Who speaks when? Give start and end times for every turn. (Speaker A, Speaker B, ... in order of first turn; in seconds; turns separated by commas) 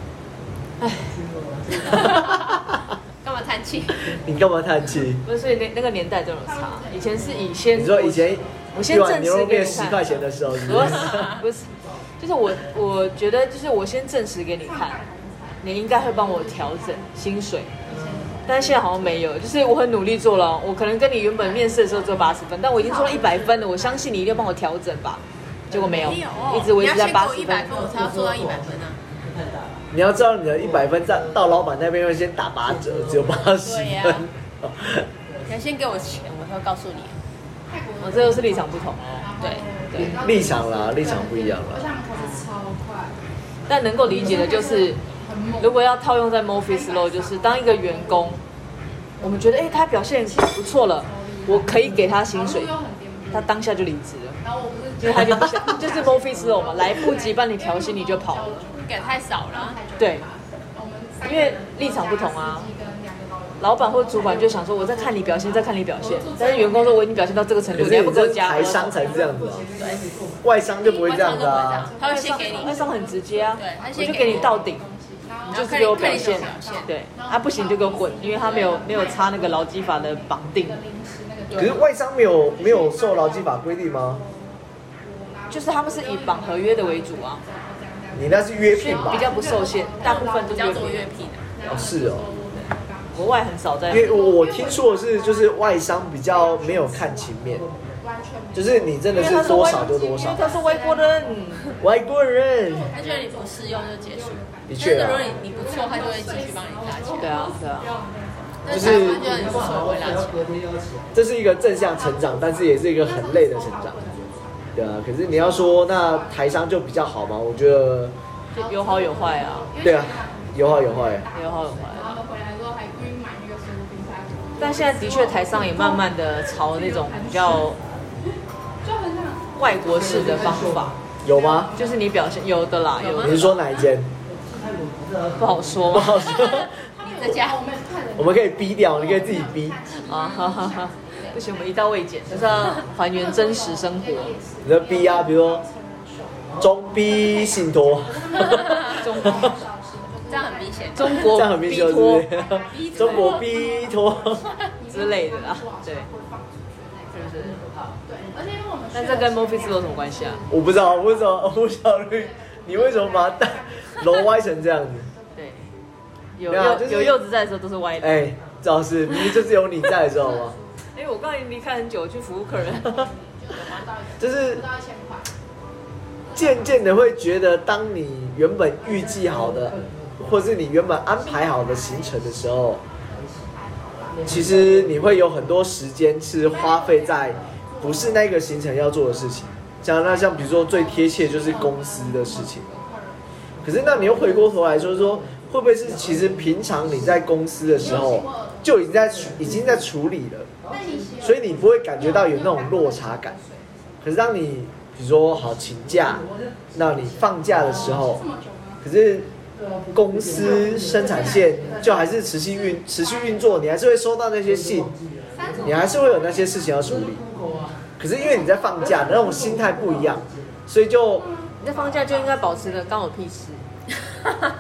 Speaker A: 0.8-1.2, Speaker B: 1.0-2.4, Speaker C: 1.9-2.6, Speaker C: 3.2-4.1, Speaker B: 3.9-4.4, Speaker D: 4.2-5.2, Speaker A: 5.2-15.0, Speaker E: 6.4-7.6, Speaker D: 7.7-11.2, Speaker B: 9.7-12.1, Speaker C: 10.9-11.4, Speaker E: 14.6-17.1, Speaker A: 15.6-17.7, Speaker E: 17.8-19.2, Speaker B: 17.9-18.4, Speaker A: 18.5-27.7, Speaker E: 21.3-24.1, Speaker B: 25.7-26.2, Speaker C: 25.9-29.0, Speaker B: 27.7-29.9, Speaker D: 29.9-35.1, Speaker B: 30.5-31.6, Speaker B: 32.7-33.6, Speaker C: 33.6-34.3, Speaker B: 35.2-36.0, Speaker C: 35.5-37.2, Speaker E: 37.7-43.2, Speaker A: 38.0-39.3, Speaker C: 39.4-39.7, Speaker A: 39.9-40.2, Speaker D: 40.0-41.9, Speaker A: 42.2-42.5, Speaker A: 43.7-45.0, Speaker E: 44.0-45.9, Speaker A: 45.6-48.4, Speaker E: 46.6-48.4, Speaker A: 49.2-52.7, Speaker E: 49.2-53.5, Speaker B: 51.7-52.0, Speaker A: 53.3-54.4, Speaker E: 54.4-67.1, Speaker A: 55.0-58.7, Speaker C: 58.7-59.8, Speaker A: 60.0-60.2, Speaker A: 61.2-62.7, Speaker A: 63.6-69.0, Speaker D: 67.7-69.7, Speaker B: 68.9-70.5, Speaker C: 69.8-70.1, Speaker D: 70.4-71.9, Speaker C: 70.8-73.0, Speaker E: 71.0-97.5, Speaker A: 72.0-74.8, Speaker C: 73.6-74.6, Speaker C: 75.5-76.9, Speaker A: 75.5-80.8, Speaker C: 78.3-78.8, Speaker C: 81.5-81.8, Speaker D: 81.5-84.2, Speaker A: 85.5-87.4, Speaker D: 88.1-89.3, Speaker A: 88.7-91.2, Speaker C: 90.0-91.5, Speaker D: 91.7-92.2, Speaker A: 93.1-94.2, Speaker D: 93.9-97.7, Speaker B: 97.5-98.0, Speaker E: 98.0-102.0, Speaker D: 98.5-100.6, Speaker A: 99.1-101.8, Speaker D: 101.8-102.9, Speaker E: 102.6-109.9, Speaker C: 102.9-107.4, Speaker D: 104.7-105.4, Speaker A: 107.2-108.0, Speaker C: 108.6-110.5, Speaker D: 108.7-109.3, Speaker B: 108.8-111.2, Speaker D: 111.1-118.1, Speaker E: 111.5-116.7, Speaker A: 118.5-119.7, Speaker E: 118.5-127.7, Speaker D: 119.8-121.3, Speaker A: 121.3-122.2, Speaker A: 124.6-127.8, Speaker E: 128.8-130.5, Speaker A: 129.6-131.0, Speaker B: 129.9-130.9, Speaker D: 131.2-131.8, Speaker E: 131.2-133.3, Speaker A: 131.8-133.6, Speaker C: 133.0-133.7, Speaker D: 133.2-134.1, Speaker B: 134.2-136.1, Speaker A: 135.4-136.3, Speaker D: 135.9-136.7, Speaker E: 136.2-142.0, Speaker C: 136.5-137.6, Speaker D: 138.2-139.8, Speaker A: 139.9-144.4, Speaker B: 142.3-142.8, Speaker E: 142.7-146.3, Speaker D: 144.6-145.6, Speaker B: 146.2-146.7, Speaker D: 146.6-149.5, Speaker E: 146.8-157.5, Speaker C: 148.6-149.0, Speaker A: 148.9-149.6, Speaker C: 150.3-151.4, Speaker A: 150.9-152.3, Speaker D: 151.3-154.4, Speaker C: 152.7-153.5, Speaker A: 154.9-156.1, Speaker A: 157.1-157.9, Speaker B: 157.4-157.9, Speaker E: 158.1-165.7, Speaker A: 158.9-160.4, Speaker D: 160.5-165.1, Speaker A: 165.3-165.7, Speaker A: 166.4-168.3, Speaker D: 166.5-167.2, Speaker D: 168.0-170.6, Speaker E: 169.9-170.8, Speaker A: 170.9-173.1, Speaker E: 172.7-175.3, Speaker D: 174.2-174.6, Speaker E: 176.2-177.2, Speaker D: 176.3-182.8, Speaker B: 178.8-180.3, Speaker E: 181.1-184.4, Speaker B: 183.2-183.5, Speaker B: 184.1-185.2, Speaker D: 184.3-192.7, Speaker E: 186.4-193.2, Speaker B: 193.6-197.2, Speaker D: 193.6-200.5, Speaker E: 197.6-199.0, Speaker B: 197.8-198.1, Speaker B: 199.0-199.8, Speaker B: 200.6-201.4, Speaker E: 200.7-204.0, Speaker D: 201.2-203.4, Speaker D: 204.0-208.2, Speaker B: 205.9-207.9, Speaker E: 207.5-208.9, Speaker D: 208.8-209.3, Speaker B: 209.5-212.2, Speaker D: 209.9-214.9, Speaker E: 210.3-213.6, Speaker B: 214.4-215.9, Speaker E: 215.3-216.8, Speaker D: 215.6-217.2, Speaker B: 216.8-218.0, Speaker D: 218.0-221.3, Speaker E: 218.1-219.3, Speaker B: 218.8-220.6, Speaker E: 221.2-223.1, Speaker A: 221.6-223.6